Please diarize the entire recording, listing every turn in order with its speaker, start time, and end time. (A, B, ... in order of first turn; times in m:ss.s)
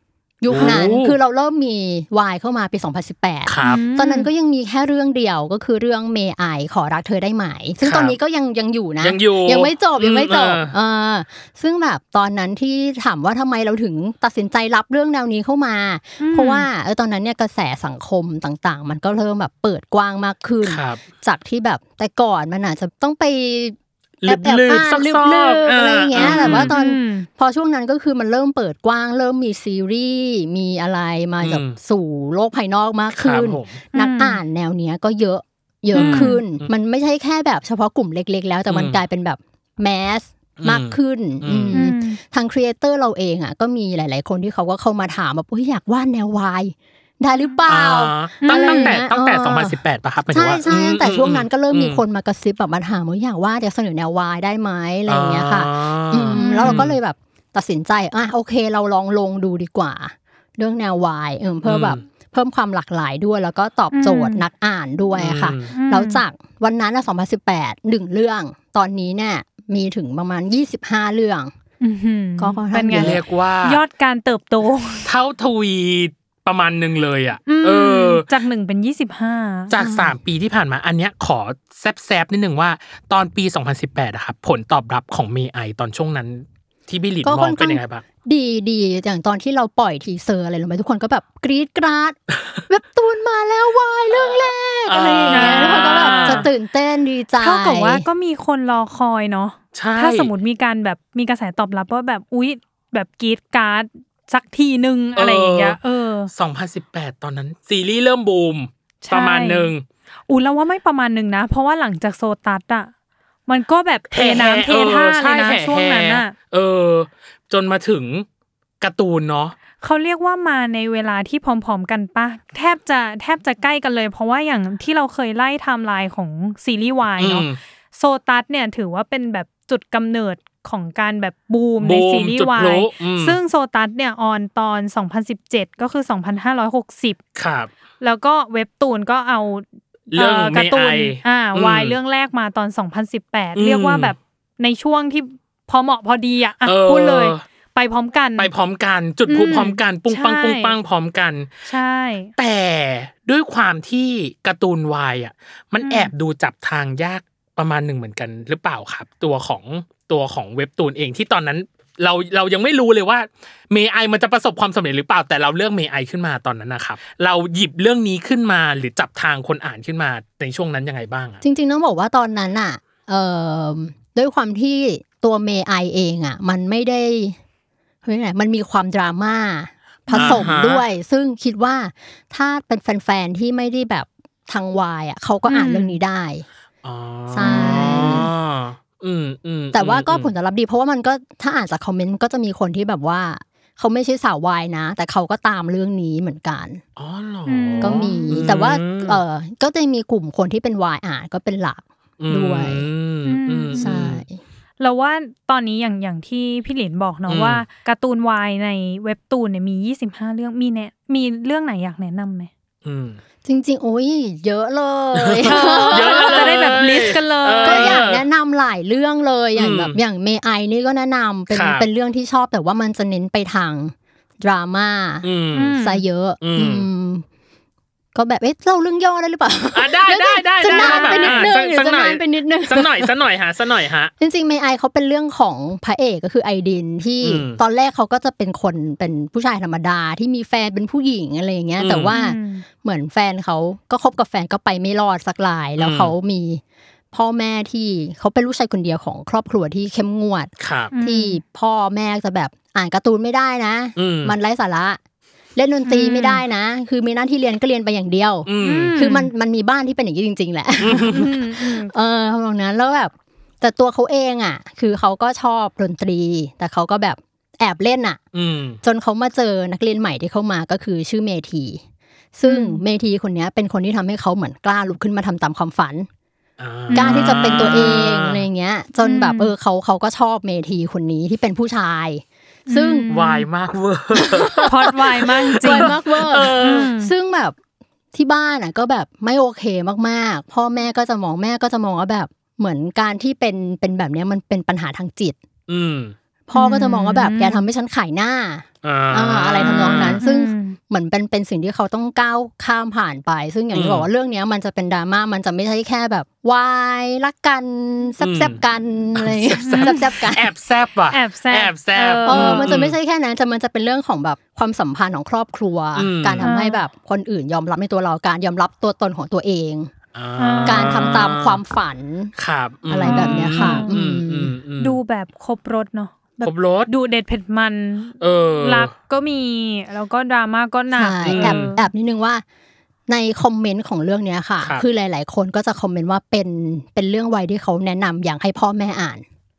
0:00.4-1:11.5 A
0:00.5-0:01.1 B
0:03.4-0:03.8 B
0:03.6-0:04.3 C
0:07.8-0:08.2 B
0:09.0-0:10.7 B
0:16.2-0:16.6 C
0:20.6-0:21.0 B
0:24.2-0:26.7 B
0:26.2-0:27.3 C
0:31.4-0:31.8 B
0:33.1-0:33.8 B
0:33.9-0:34.4 C
0:35.9-0:36.4 C
0:35.9-0:36.7 B
0:38.7-0:39.0 B
0:40.6-0:41.8 B
0:41.7-0:42.2 C
0:47.7-0:52.0 B
0:48.4-0:49.0 C
0:55.1-0:57.0 B
0:56.3-0:56.8 C
1:01.6-1:02.0 B
1:03.9-1:04.4 C
1:05.2-1:05.7 B
1:05.7-1:06.2 C
1:11.8-1:15.1 C
1:12.4-1:13.2 A
1:12.9-1:13.8 B
1:15.0-1:18.2 B
1:17.5-1:19.7 C
1:19.7-1:28.0 B
1:19.8-1:20.1 A
1:27.2-1:38.0 A
1:34.9-1:36.5 B
1:35.3-1:36.5 C
1:37.4-1:46.3 C
1:39.7-1:40.3 B
1:45.2-1:45.8 B
1:46.3-1:49.8 B
1:49.0-1:49.7 C
1:50.3-1:52.9 C
1:53.5-1:56.3 C
1:54.1-1:58.2 B
1:58.8-1:59.5 B
1:59.8-2:17.2 C
2:07.2-2:07.6 B
2:11.8-2:13.4 B
2:17.4-2:17.7 B
2:18.0-2:28.5 C
2:20.1-2:22.0 B
2:23.6-2:24.1 B
2:26.6-2:27.4 B
2:28.4-2:31.5 B
2:29.3-2:30.7 C
2:31.7-2:32.3 C
2:32.4-2:51.4 B
2:35.8-2:36.1 C
2:51.4-2:57.4 A
2:58.0-3:06.4 A
3:00.1-3:00.5 C
3:00.1-3:00.8 B
3:05.5-3:06.0 C
3:06.8-3:10.3 B
3:07.3-3:08.3 A
3:07.4-3:08.1 C
3:09.7-3:16.8 A
3:17.0-3:19.2 B
3:17.4-3:18.5 C
3:17.8-3:22.8 A
3:22.2-3:24.2 B
3:23.3-3:23.9 C
3:23.8-3:24.4 A
3:24.8-3:32.5 C
3:27.3-3:27.6 B
3:32.8-3:33.2 B
3:33.4-3:36.6 A
3:35.2-3:38.2 B
3:35.4-3:38.0 C
3:37.6-3:45.3 A
3:39.6-3:40.0 B
3:41.5-3:41.9 B
3:45.2-3:45.8 B
3:45.5-3:46.0 C
3:45.8-3:47.2 A
3:46.4-3:46.9 B
3:48.1-3:53.1 A
3:49.7-3:54.1 B
3:50.6-3:51.4 C
3:54.2-4:06.6 A
3:57.2-3:57.6 B
4:01.8-4:02.1 B
4:02.1-4:02.6 C
4:05.8-4:06.1 B
4:07.1-4:15.0 A
4:10.6-4:10.9 B
4:10.9-4:11.4 C
4:14.0-4:14.3 B
4:15.6-4:28.2 A
4:15.8-4:16.4 C
4:18.4-4:19.0 B
4:18.6-4:19.3 C
4:20.8-4:21.2 B
4:20.9-4:21.9 C
4:28.3-4:28.8 B
4:28.8-4:31.8 A
4:32.3-4:36.1 A
4:32.4-4:32.8 C
4:36.6-4:38.4 B
4:36.9-4:37.9 C
4:36.9-4:43.3 A
4:39.0-4:39.5 C
4:42.7-4:43.3 C
4:43.1-4:44.9 B
4:44.1-4:44.7 A
4:44.6-4:45.9 C
4:45.5-4:46.9 B
4:45.5-4:47.6 A
4:46.6-4:47.1 C
4:48.1-4:55.4 A
4:55.7-4:56.1 B
4:56.5-5:10.5 A
4:56.5-4:57.6 C
4:58.8-5:00.2 B
4:59.7-5:00.8 C
5:03.7-5:04.1 B
5:08.2-5:08.6 B
5:09.1-5:12.9 B
5:09.6-5:10.0 C
5:11.1-5:12.7 C
5:12.2-5:19.9 A
5:16.0-5:16.4 B
5:16.4-5:16.8 C
5:20.1-5:21.6 B
5:20.4-5:21.2 C
5:20.6-5:22.3 A
5:22.4-5:25.0 B
5:22.9-5:24.5 A
5:23.0-5:23.9 C
5:24.8-5:31.8 C
5:26.4-5:26.9 B
5:28.2-5:28.9 B
5:30.9-5:32.4 A
5:31.2-5:31.7 B
5:33.1-5:39.2 A